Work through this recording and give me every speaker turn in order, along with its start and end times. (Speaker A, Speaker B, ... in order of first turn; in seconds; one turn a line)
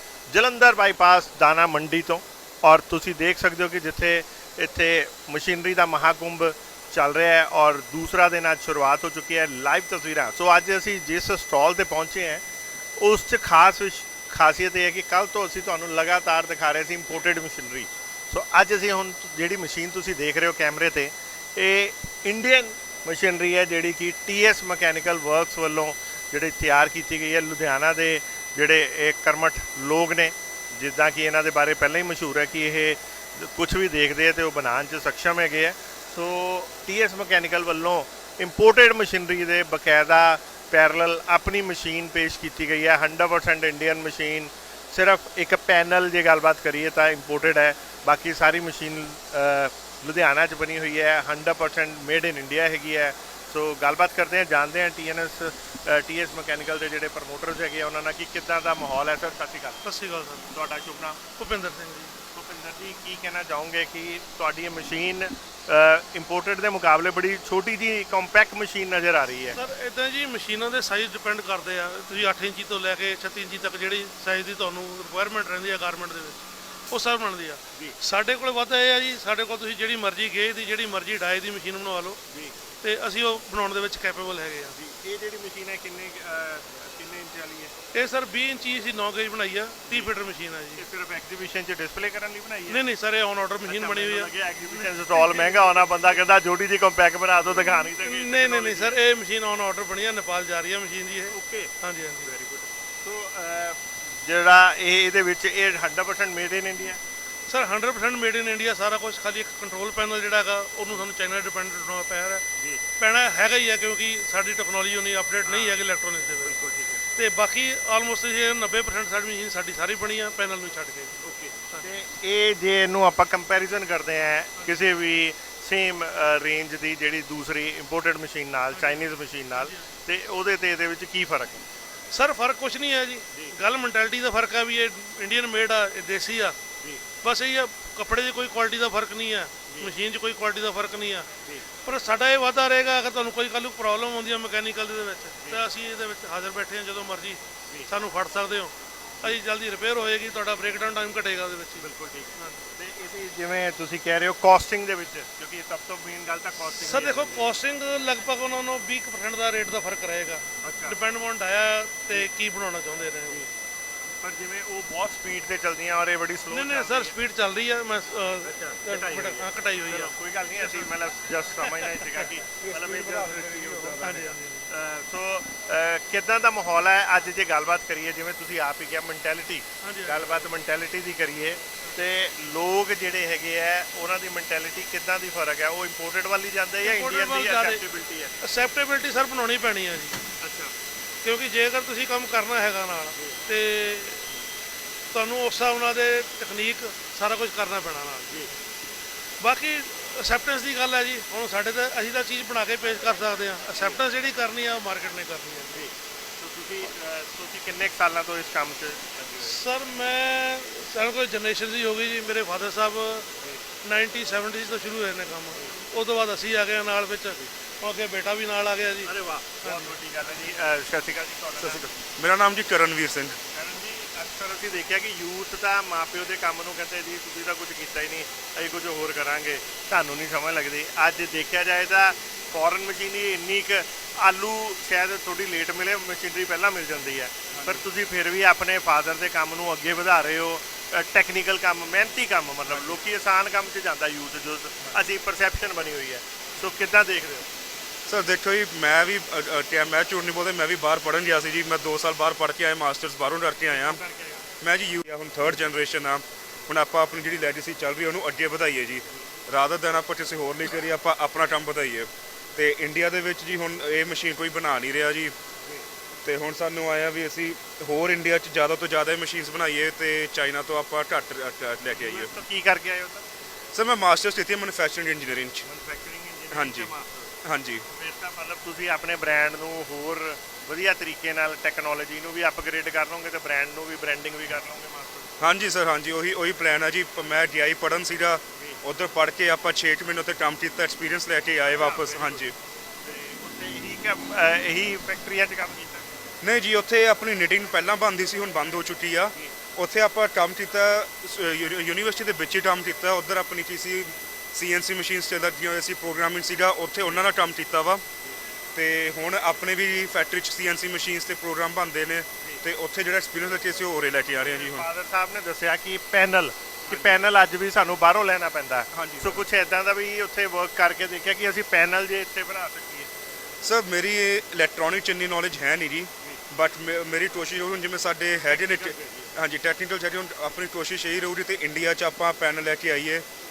Speaker A: 0.3-12.4
Speaker A: 13.0-59.8
Speaker B: 59.8-60.5
Speaker A: 60.5-61.2
Speaker B: 61.4-62.1
Speaker A: 62.3-69.6
Speaker B: 69.5-82.2
Speaker A: 82.3-82.5
Speaker B: 82.8-84.7
Speaker A: 84.7-87.7
Speaker B: 87.9-90.8
Speaker A: 89.9-90.1
Speaker A: 90.8-92.8
Speaker B: 92.7-95.8
Speaker A: 93.6-98.9
Speaker B: 97.5-102.3
Speaker A: 101.3-107.0
Speaker B: 107.5-112.4
Speaker B: 113.0-121.8
Speaker A: 115.4-115.8
Speaker A: 116.4-117.0
Speaker A: 121.2-131.7
Speaker B: 128.7-129.9
Speaker B: 132.1-136.6
Speaker B: 137.2-141.3
Speaker B: 141.8-152.6
Speaker A: 151.8-157.5
Speaker B: 156.7-163.4
Speaker A: 160.6-161.0
Speaker A: 164.2-167.1
Speaker B: 166.5-170.9
Speaker A: 168.4-188.4
Speaker B: 171.6-172.3
Speaker C: 172.6-174.0
Speaker B: 174.0-174.7
Speaker B: 179.8-180.4
Speaker B: 186.8-187.8
Speaker B: 188.4-190.2
Speaker A: 190.4-190.7
Speaker B: 191.2-194.2
Speaker B: 195.1-198.5
Speaker B: 199.4-205.9
Speaker A: 205.7-209.6
Speaker B: 209.4-213.3
Speaker B: 213.8-219.1
Speaker A: 219.0-221.9
Speaker B: 219.6-219.9
Speaker C: 221.6-223.3
Speaker A: 223.4-247.5
Speaker C: 237.5-237.8
Speaker C: 242.7-243.0
Speaker C: 248.1-254.0
Speaker A: 253.7-254.5
Speaker C: 254.6-265.3
Speaker C: 266.2-272.3
Speaker A: 271.9-273.3
Speaker C: 273.7-275.6
Speaker A: 275.6-277.4
Speaker C: 276.5-276.9
Speaker C: 277.4-277.8
Speaker A: 277.9-285.4
Speaker C: 285.4-292.5
Speaker A: 291.7-292.4
Speaker A: 293.0-296.1
Speaker C: 296.4-308.0
Speaker C: 308.7-314.9
Speaker A: 314.4-323.1
Speaker C: 316.9-317.2
Speaker C: 318.9-319.4
Speaker C: 323.6-333.2
Speaker A: 328.5-329.3